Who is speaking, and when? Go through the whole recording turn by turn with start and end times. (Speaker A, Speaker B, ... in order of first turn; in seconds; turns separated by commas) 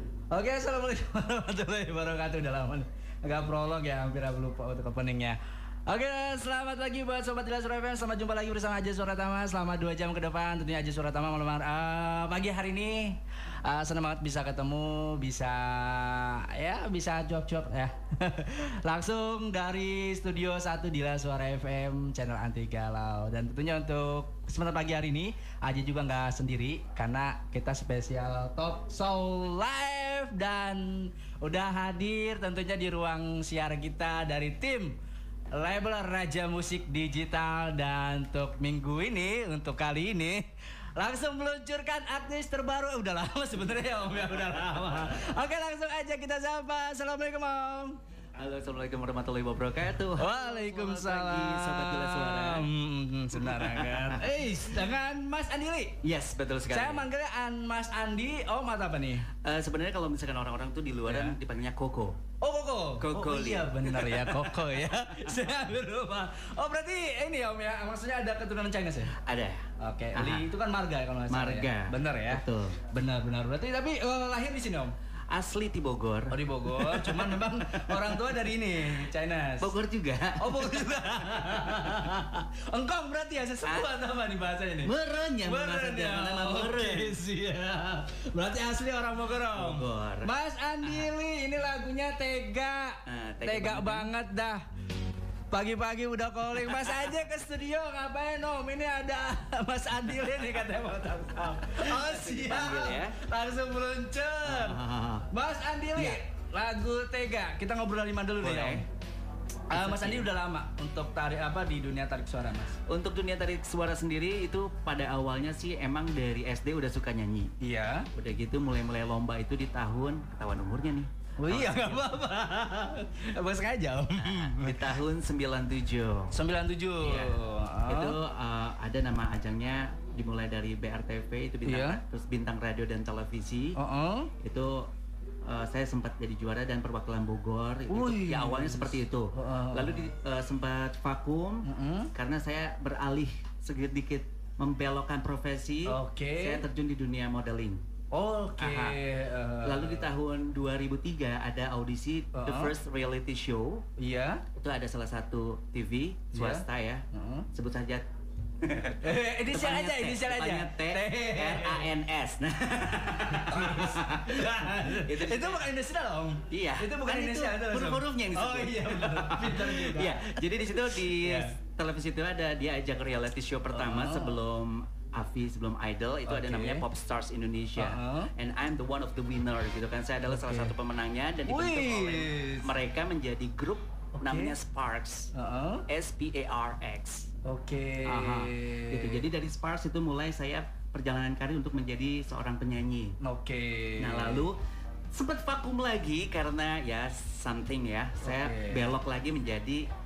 Speaker A: 0.3-35.0, Speaker A: 35.5-48.0, Speaker B: 48.4-52.7, Speaker A: 50.2-55.9, Speaker B: 53.3-54.3, Speaker B: 56.0-57.1, Speaker A: 56.7-59.3, Speaker B: 59.3-62.2, Speaker A: 61.1-61.4, Speaker A: 62.4-69.2, Speaker B: 63.0-65.4, Speaker B: 69.1-70.5, Speaker A: 69.8-74.9, Speaker B: 71.3-72.8, Speaker B: 75.3-78.3, Speaker A: 76.3-79.7, Speaker B: 79.6-81.9, Speaker A: 80.4-84.9, Speaker B: 84.8-87.2, Speaker A: 85.4-94.6, Speaker B: 89.5-90.3, Speaker B: 90.8-91.1, Speaker B: 93.0-94.1, Speaker A: 95.5-108.8, Speaker B: 96.5-97.1, Speaker B: 101.7-103.2, Speaker B: 104.4-105.3, Speaker B: 108.4-108.8, Speaker A: 109.7-112.8, Speaker B: 109.7-110.3, Speaker B: 112.9-117.5, Speaker A: 117.6-118.1, Speaker B: 118.1-122.2, Speaker A: 121.4-125.0, Speaker B: 124.2-126.3, Speaker A: 126.3-128.2, Speaker B: 127.0-127.3, Speaker B: 127.9-133.8, Speaker A: 131.7-132.0, Speaker A: 133.8-134.3, Speaker B: 134.4-134.9, Speaker B: 135.4-147.8, Speaker A: 137.9-140.1, Speaker A: 141.6-142.1, Speaker A: 145.8-146.6, Speaker A: 148.1-150.1, Speaker B: 148.6-149.0, Speaker B: 149.6-153.8, Speaker A: 152.3-152.7, Speaker A: 154.0-154.4, Speaker B: 154.5-158.0, Speaker A: 156.3-157.5, Speaker B: 158.6-165.7, Speaker A: 159.0-161.9, Speaker A: 163.1-171.6, Speaker B: 166.5-185.3, Speaker A: 173.7-174.4, Speaker A: 176.2-176.8, Speaker A: 177.8-178.3, Speaker A: 180.3-180.7, Speaker A: 181.5-182.7, Speaker A: 184.2-184.6, Speaker A: 185.3-185.8, Speaker B: 185.9-187.3, Speaker A: 187.4-189.2, Speaker B: 188.0-193.2, Speaker A: 193.2-194.5, Speaker B: 194.0-194.6, Speaker B: 195.1-199.8, Speaker A: 198.2-198.9